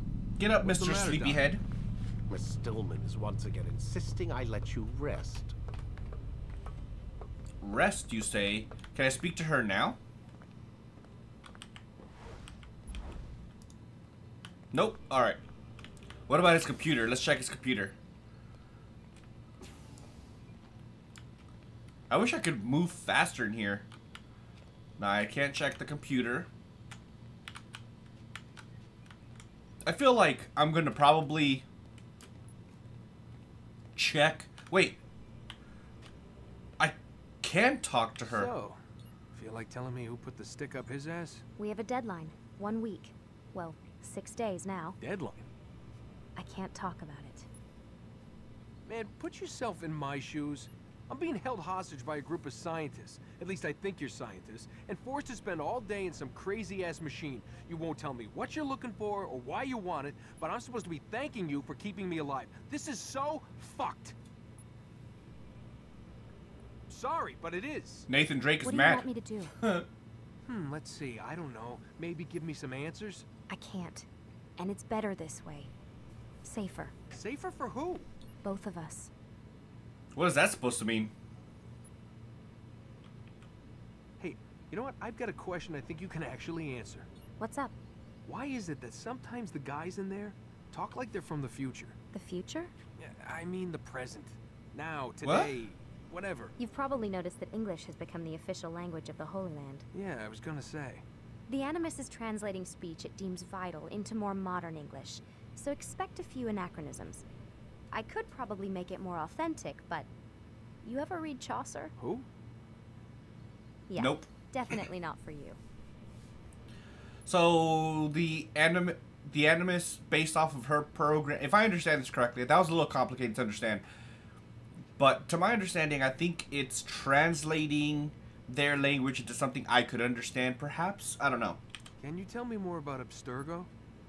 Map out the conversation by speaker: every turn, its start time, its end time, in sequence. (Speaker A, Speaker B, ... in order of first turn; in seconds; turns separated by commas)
Speaker A: 0.4-1.6, Speaker B: 0.6-1.6, Speaker C: 2.3-5.5, Speaker A: 7.6-10.0, Speaker A: 14.7-15.4, Speaker A: 16.3-18.0, Speaker A: 22.1-23.9, Speaker A: 25.0-26.5, Speaker A: 29.8-31.6, Speaker A: 34.0-35.0, Speaker A: 36.8-38.5, Speaker B: 38.2-38.8, Speaker B: 39.3-41.4, Speaker D: 41.6-45.0, Speaker B: 45.0-45.5, Speaker D: 46.4-47.5, Speaker B: 48.9-64.2, Speaker B: 66.9-68.1, Speaker A: 68.1-69.1, Speaker D: 68.6-69.5, Speaker A: 69.6-69.9, Speaker B: 70.4-73.2, Speaker D: 73.5-74.0, Speaker D: 74.6-75.7, Speaker D: 76.4-76.9, Speaker B: 77.1-78.0, Speaker D: 78.4-79.1, Speaker A: 80.1-81.1, Speaker B: 84.2-87.1, Speaker D: 87.4-87.7, Speaker B: 88.2-92.0, Speaker D: 92.1-92.7, Speaker B: 93.0-96.5, Speaker A: 95.2-95.5, Speaker D: 96.6-99.8, Speaker B: 99.9-101.0, Speaker D: 101.5-107.2, Speaker D: 107.9-110.1, Speaker D: 110.8-111.9, Speaker B: 112.0-112.2, Speaker D: 113.9-115.6, Speaker A: 114.0-114.2, Speaker A: 117.2-123.8, Speaker A: 125.0-131.6, Speaker B: 132.0-133.7